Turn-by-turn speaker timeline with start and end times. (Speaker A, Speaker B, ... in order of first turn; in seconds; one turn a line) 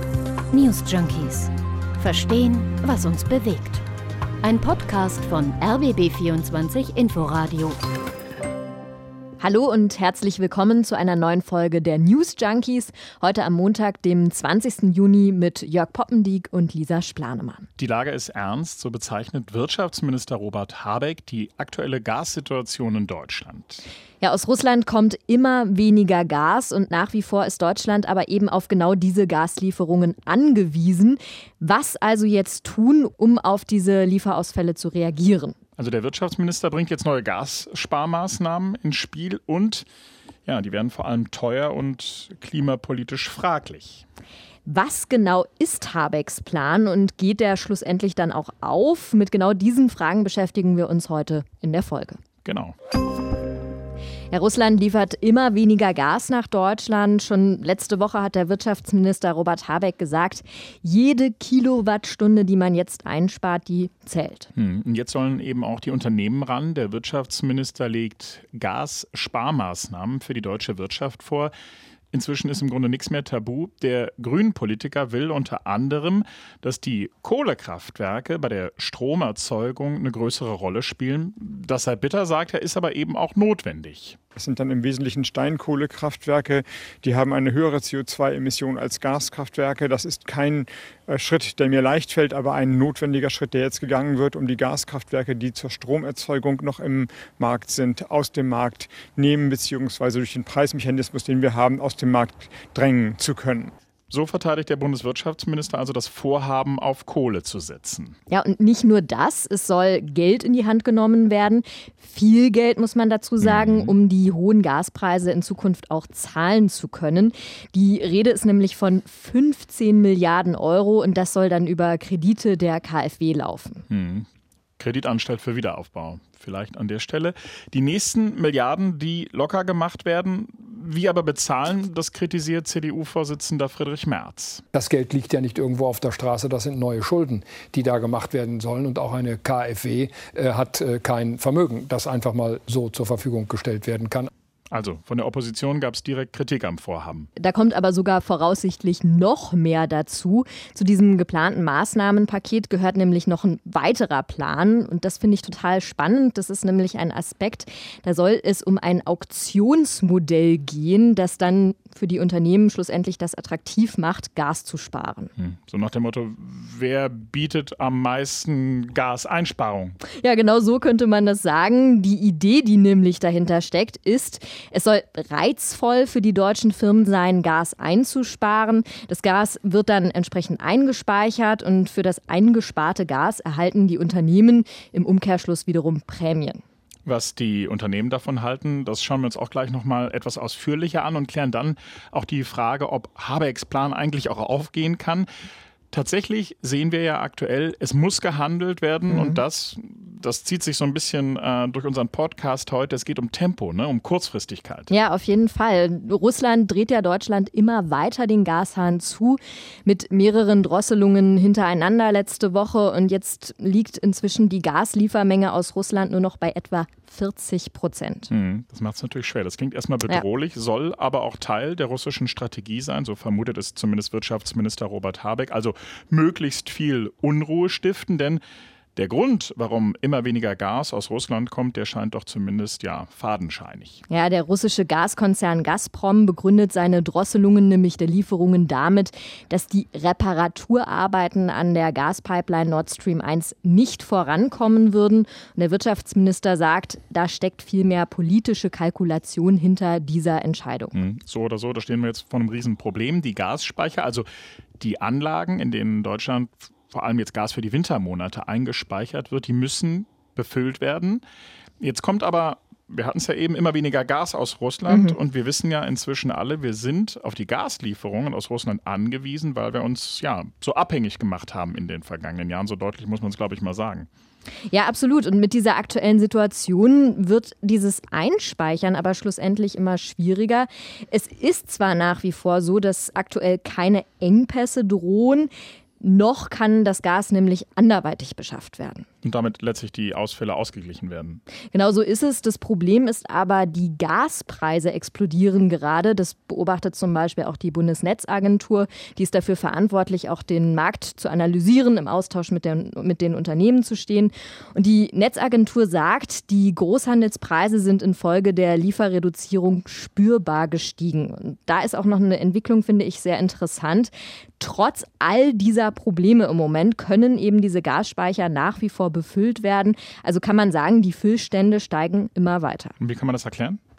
Speaker A: 0.5-3.8
Speaker A: 4.4-7.8
Speaker B: 9.4-17.7
Speaker C: 17.8-23.8
Speaker B: 24.2-35.5
Speaker C: 35.8-39.9
Speaker C: 40.5-44.0
Speaker B: 44.6-52.2
Speaker C: 52.4-52.7
Speaker B: 54.3-64.5
Speaker C: 64.5-71.5
Speaker C: 72.1-84.2
Speaker D: 84.3-103.7
Speaker C: 104.1-108.2
Speaker B: 108.3-123.8
Speaker C: 113.4-113.9
Speaker C: 123.9-124.3
Speaker C: 124.8-134.6
Speaker E: 134.7-144.3
Speaker C: 144.7-147.3
Speaker B: 147.4-165.3
Speaker C: 165.4-170.0
Speaker B: 170.2-186.6
Speaker C: 187.1-195.3
Speaker C: 195.9-204.9
Speaker B: 199.1-199.4
Speaker B: 204.9-218.3
Speaker C: 218.3-228.4
Speaker C: 228.9-234.0
Speaker B: 234.1-250.9
Speaker C: 250.9-254.3
Speaker C: 254.8-261.2
Speaker C: 261.8-274.1
Speaker B: 264.9-265.2
Speaker B: 274.7-285.5
Speaker B: 286.0-289.1
Speaker C: 289.2-291.4
Speaker B: 291.7-322.9
Speaker C: 323.0-323.8